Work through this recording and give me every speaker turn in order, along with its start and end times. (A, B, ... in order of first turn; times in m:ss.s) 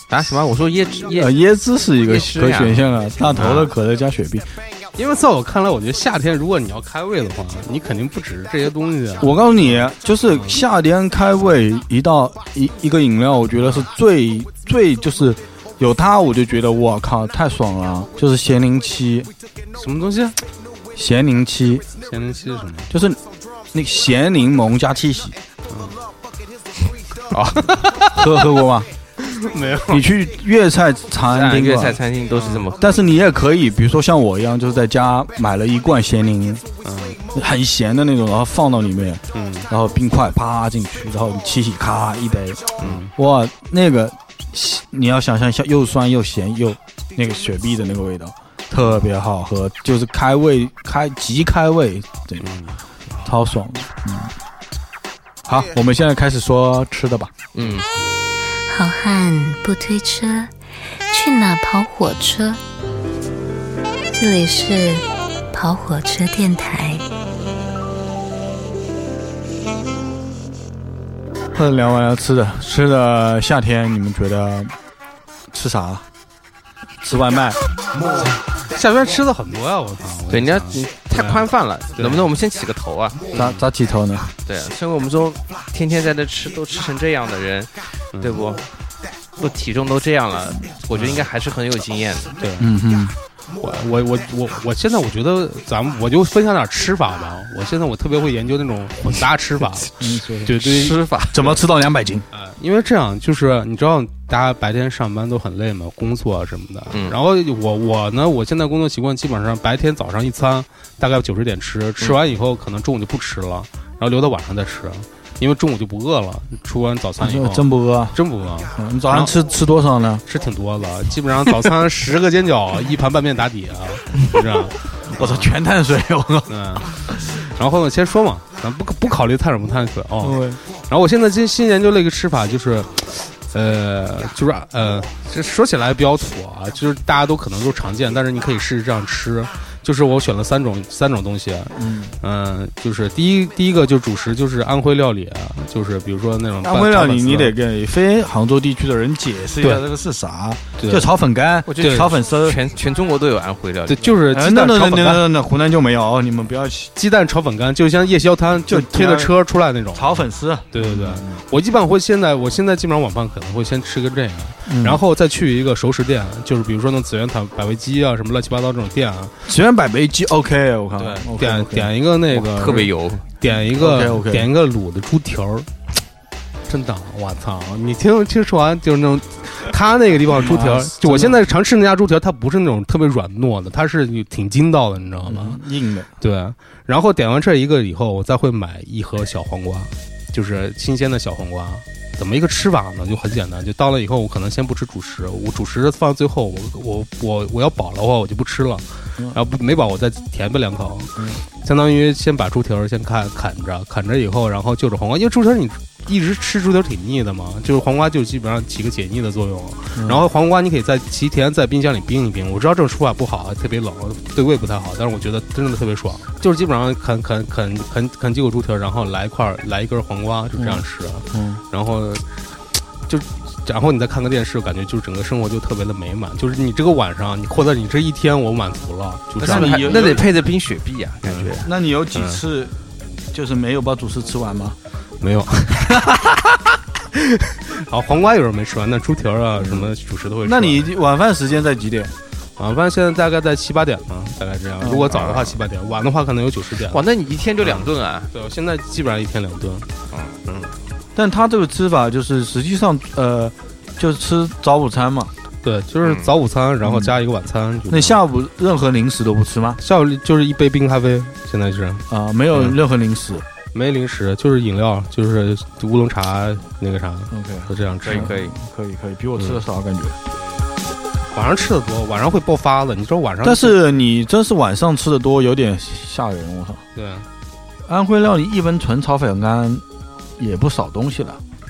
0:00.1-0:01.4 A
0:01.1-0:04.5 B
0:02.0-0:03.7 A
0:03.4-0:03.7 C
0:05.0-0:10.6 C
0:09.2-0:19.3 B
0:13.6-0:13.9 C
0:19.7-0:20.4 C
0:20.9-0:21.9 B
0:22.0-0:22.9 C
0:22.9-0:23.2 B
0:23.7-0:25.4 B
0:25.7-0:26.0 C
0:27.3-0:28.2 A
0:28.1-0:28.9 B
0:29.3-0:30.0 C
0:29.9-0:32.0 B
0:31.3-0:33.0 A
0:32.3-0:32.7 C
0:32.8-0:36.6 B
0:36.8-0:37.2 C
0:37.3-0:52.5 B
0:39.3-0:39.7 C
0:42.8-0:43.1 C
0:52.4-0:52.8 C
0:53.2-0:54.3 B
0:55.5-0:57.3 B
0:57.6-0:57.9 A
0:58.7-1:00.5 D
1:01.1-1:02.6 D
1:04.1-1:07.0 D
1:11.5-1:14.7 B
1:15.5-1:16.0 B
1:17.0-1:17.6 B
1:18.0-1:22.3 C
1:20.3-1:23.4 A
1:23.3-1:23.6 C
1:23.3-1:24.4 B
1:24.5-1:28.7 A
1:28.1-1:28.4 C
1:29.4-1:32.3 A
1:30.9-1:31.2 C
1:32.4-1:32.7 C
1:32.6-1:33.2 B
1:33.6-1:41.0 C
1:40.0-1:40.6 B
1:40.6-1:41.6 A
1:41.3-1:42.3 B
1:42.3-1:59.3 C
1:46.9-1:47.2 A
1:57.2-1:58.2 B
1:58.7-2:00.2 B
2:00.3-2:05.5 C
2:05.1-2:07.5 B
2:06.5-2:27.6 C
2:10.2-2:10.6 B
2:21.8-2:22.2 B
2:26.6-2:32.6 B
2:30.8-2:31.1 C
2:31.7-2:34.2 A
2:31.8-2:32.1 C
2:33.9-2:35.2 C
2:34.3-2:36.9 B
2:37.0-2:49.4 C
2:38.7-2:39.4 B
2:39.9-2:41.4 B
2:44.7-2:45.0 B
2:49.5-2:51.9 B
2:51.3-2:55.7 C
2:52.3-2:53.2 A
2:53.8-2:54.5 B
2:56.7-3:05.6 C
3:00.3-3:01.4 B
3:05.3-3:06.1 B
3:06.2-3:50.2 C
3:30.0-3:30.2 B
3:40.6-3:41.6 B
3:49.4-3:51.7 A
3:49.4-3:50.3 B
3:51.2-3:51.6 C
3:51.6-3:52.7 B
3:52.1-3:52.4 C
3:53.3-3:54.8 B
3:55.2-3:56.1 C
3:55.9-3:56.6 B
3:57.2-4:00.9 C
3:59.6-3:59.9 B
4:00.4-4:02.1 B
4:02.6-4:07.0 C
4:04.8-4:05.2 B
4:05.1-4:05.6 A
4:06.9-4:08.3 A
4:07.6-4:09.9 C
4:10.1-4:10.4 A
4:11.2-4:15.3 B
4:15.6-4:18.2 C
4:16.0-4:16.3 A
4:16.8-4:17.1 B
4:17.9-4:19.8 B
4:19.8-4:22.8 C
4:22.1-4:23.5 B
4:23.7-4:28.5 C
4:27.3-4:30.2 B
4:28.0-4:28.5 A
4:31.3-4:33.8 C
4:33.4-4:36.8 B
4:37.0-4:37.3 C
4:37.9-4:39.8 B
4:40.4-4:41.4 B